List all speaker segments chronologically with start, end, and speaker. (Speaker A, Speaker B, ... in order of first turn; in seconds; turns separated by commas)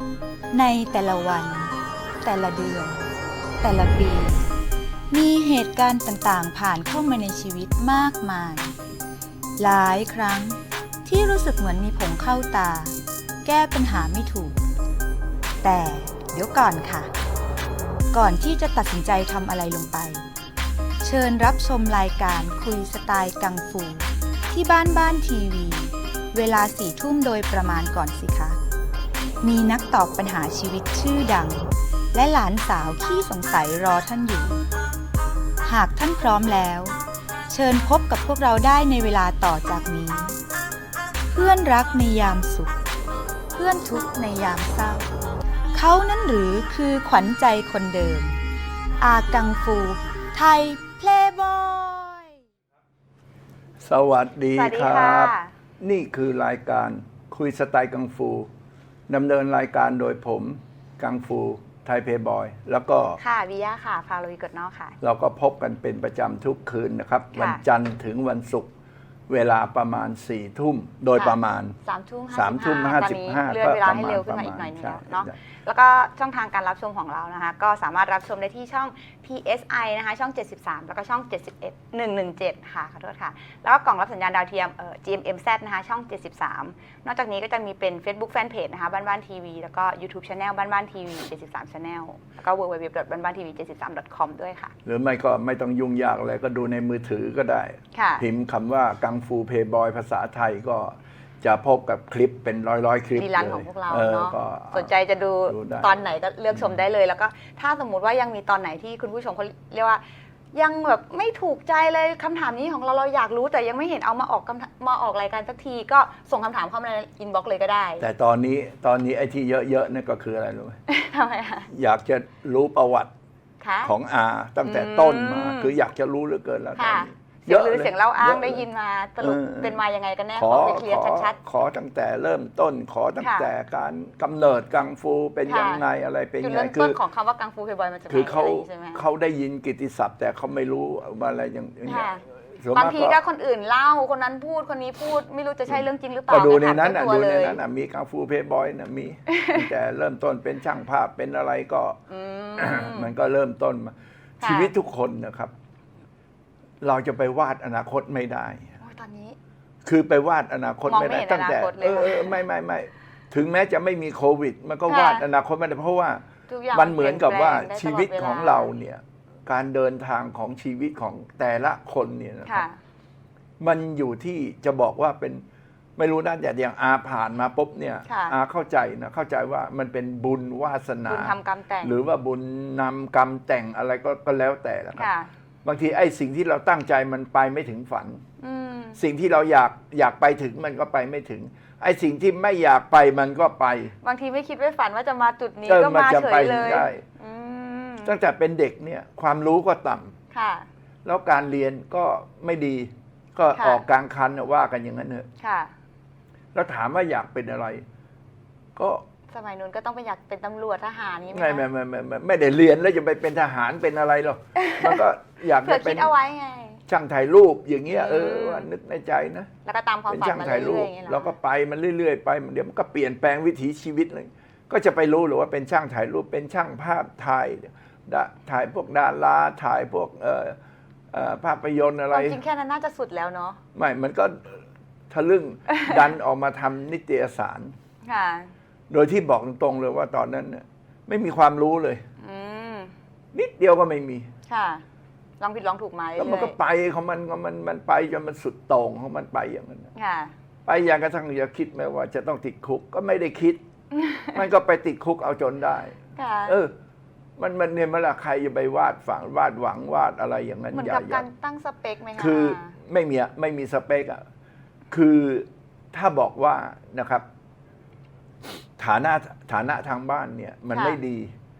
Speaker A: 0.5-1.5, Speaker B: 0.5-1.6, Speaker B: 2.2-3.0, Speaker A: 2.2-2.8, Speaker B: 3.6-4.4, Speaker B: 5.1-8.7, Speaker A: 5.6-5.9, Speaker B: 9.6-10.5, Speaker B: 11.1-12.9, Speaker B: 13.4-14.6, Speaker B: 15.6-17.1, Speaker B: 18.1-20.2, Speaker B: 21.0-28.5, Speaker A: 27.3-27.7, Speaker B: 29.4-34.6, Speaker A: 33.1-33.4, Speaker B: 35.6-36.9, Speaker B: 37.5-40.3, Speaker B: 41.3-42.7, Speaker B: 43.5-45.0, Speaker B: 45.7-48.4, Speaker B: 49.0-51.8, Speaker A: 50.8-52.2, Speaker C: 53.8-58.5, Speaker A: 54.5-55.5, Speaker C: 59.1-63.2, Speaker A: 63.2-65.0, Speaker C: 65.0-68.7, Speaker A: 67.3-67.6, Speaker C: 69.3-71.8, Speaker A: 71.1-94.7, Speaker C: 72.3-75.3, Speaker C: 94.8-104.9, Speaker A: 97.9-98.2, Speaker A: 103.1-110.0, Speaker C: 105.5-105.9, Speaker C: 106.5-106.8, Speaker A: 110.5-118.0, Speaker C: 118.0-120.8, Speaker A: 120.9-121.7, Speaker C: 121.7-123.1, Speaker A: 123.6-123.9, Speaker C: 123.8-128.6, Speaker A: 124.6-125.7, Speaker A: 126.8-131.4, Speaker C: 129.2-129.8, Speaker C: 130.3-137.0, Speaker A: 133.2-133.5, Speaker A: 135.4-135.8, Speaker A: 136.4-139.0, Speaker C: 138.1-143.2, Speaker A: 141.8-142.2, Speaker A: 142.7-147.6, Speaker C: 145.7-152.0, Speaker A: 149.3-149.6, Speaker A: 152.1-153.1, Speaker C: 152.6-155.5, Speaker A: 154.4-154.7, Speaker C: 156.8-158.7, Speaker A: 158.8-159.4, Speaker C: 159.8-172.7, Speaker A: 160.8-162.4, Speaker A: 164.9-165.2, Speaker A: 166.5-168.7, Speaker A: 172.4-172.8, Speaker C: 173.6-175.4, Speaker C: 176.0-185.1, Speaker A: 178.1-178.4, Speaker A: 181.1-181.9, Speaker A: 184.9-185.3, Speaker C: 185.6-188.2, Speaker A: 188.4-189.0, Speaker C: 189.0-193.9, Speaker A: 194.0-198.1, Speaker C: 195.7-197.0, Speaker C: 198.0-200.1, Speaker A: 200.3-200.7, Speaker C: 201.0-205.3, Speaker A: 203.5-203.8, Speaker A: 205.4-205.7, Speaker C: 206.5-207.8, Speaker C: 208.8-209.0, Speaker A: 209.3-211.6, Speaker C: 211.3-216.1, Speaker A: 214.6-215.0, Speaker A: 215.6-216.8, Speaker C: 216.9-219.5, Speaker A: 217.9-218.7, Speaker A: 219.6-221.3, Speaker C: 220.1-230.6, Speaker C: 231.1-232.4, Speaker A: 232.1-233.6, Speaker C: 233.7-237.7, Speaker A: 235.7-235.9, Speaker A: 238.0-238.5, Speaker C: 238.9-242.0, Speaker A: 242.2-242.9, Speaker C: 243.3-244.3, Speaker A: 244.5-244.8, Speaker A: 245.4-246.6, Speaker C: 246.2-249.9, Speaker A: 249.9-250.3, Speaker C: 250.7-253.6, Speaker A: 254.0-254.4, Speaker C: 254.3-256.7, Speaker A: 256.1-256.6, Speaker C: 257.4-261.2, Speaker A: 260.7-262.7, Speaker C: 262.1-264.2, Speaker C: 264.9-267.2, Speaker C: 268.8-271.3, Speaker A: 270.7-271.0